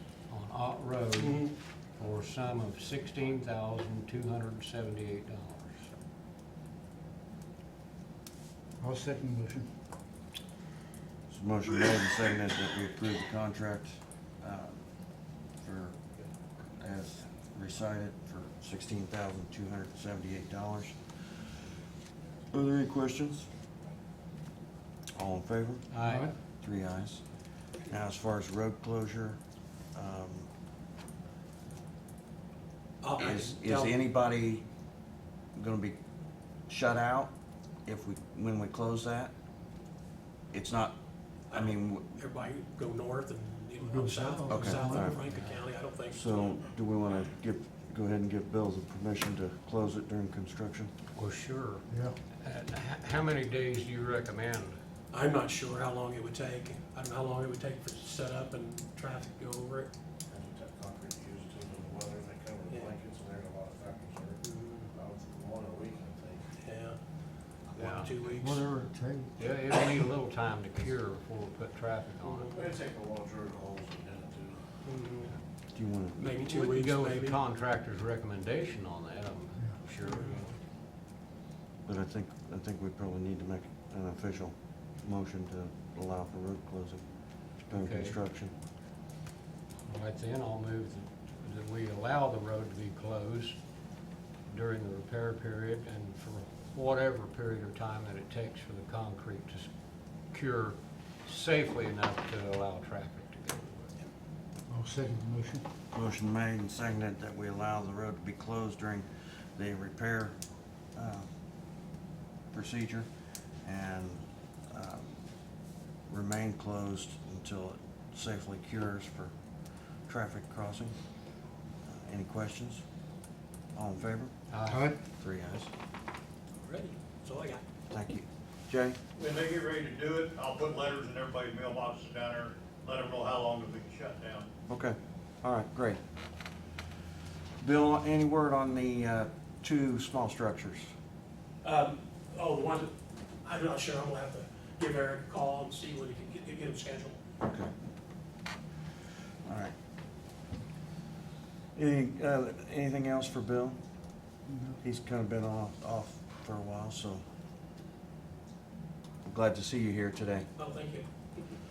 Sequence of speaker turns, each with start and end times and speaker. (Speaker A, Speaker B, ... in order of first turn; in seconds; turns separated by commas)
Speaker A: 0.3-5.9, Speaker B: 1.2-1.5, Speaker C: 8.8-9.7, Speaker D: 11.3-14.8, Speaker D: 15.6-16.0, Speaker D: 16.8-21.1, Speaker D: 22.5-23.5, Speaker D: 25.1-25.9, Speaker A: 25.9-26.3, Speaker D: 26.5-27.2, Speaker D: 27.9-29.4, Speaker D: 29.9-30.5, Speaker B: 33.0-33.9, Speaker D: 33.2-34.6, Speaker D: 35.5-36.0, Speaker D: 36.7-37.3, Speaker D: 37.9-39.3, Speaker D: 40.5-41.0, Speaker D: 41.5-42.1, Speaker B: 41.5-46.5, Speaker C: 43.9-45.1, Speaker D: 44.5-45.2, Speaker A: 45.3-45.6, Speaker D: 46.1-50.9, Speaker A: 51.1-54.8, Speaker B: 55.1-59.9, Speaker E: 60.3-66.4, Speaker B: 64.4-64.9, Speaker B: 66.6-67.0, Speaker B: 67.7-68.7, Speaker A: 67.8-68.1, Speaker C: 68.4-69.3, Speaker A: 69.4-72.6, Speaker B: 72.2-72.5, Speaker E: 72.5-74.6, Speaker B: 74.8-75.3, Speaker D: 75.7-76.3, Speaker B: 76.2-77.4, Speaker A: 76.4-80.6, Speaker B: 80.0-80.3, Speaker D: 81.8-87.0, Speaker D: 87.7-88.5, Speaker A: 87.7-88.2, Speaker A: 89.9-93.6, Speaker A: 94.5-99.7, Speaker A: 100.3-104.0, Speaker C: 104.7-105.6, Speaker D: 105.9-110.3, Speaker D: 110.9-111.3, Speaker D: 112.5-113.1, Speaker D: 113.6-115.2, Speaker D: 116.1-119.3, Speaker D: 120.0-120.9, Speaker D: 121.8-122.8, Speaker D: 123.7-124.3, Speaker A: 124.5-124.9, Speaker D: 125.1-125.7, Speaker B: 126.6-127.6, Speaker D: 127.9-129.0, Speaker F: 129.2-134.5, Speaker D: 134.7-136.0, Speaker D: 137.6-140.9, Speaker B: 141.6-142.9, Speaker B: 143.4-147.2, Speaker D: 147.4-147.7, Speaker D: 149.4-149.7, Speaker D: 151.7-153.8, Speaker D: 154.8-157.2, Speaker D: 159.2-160.5, Speaker B: 160.6-161.1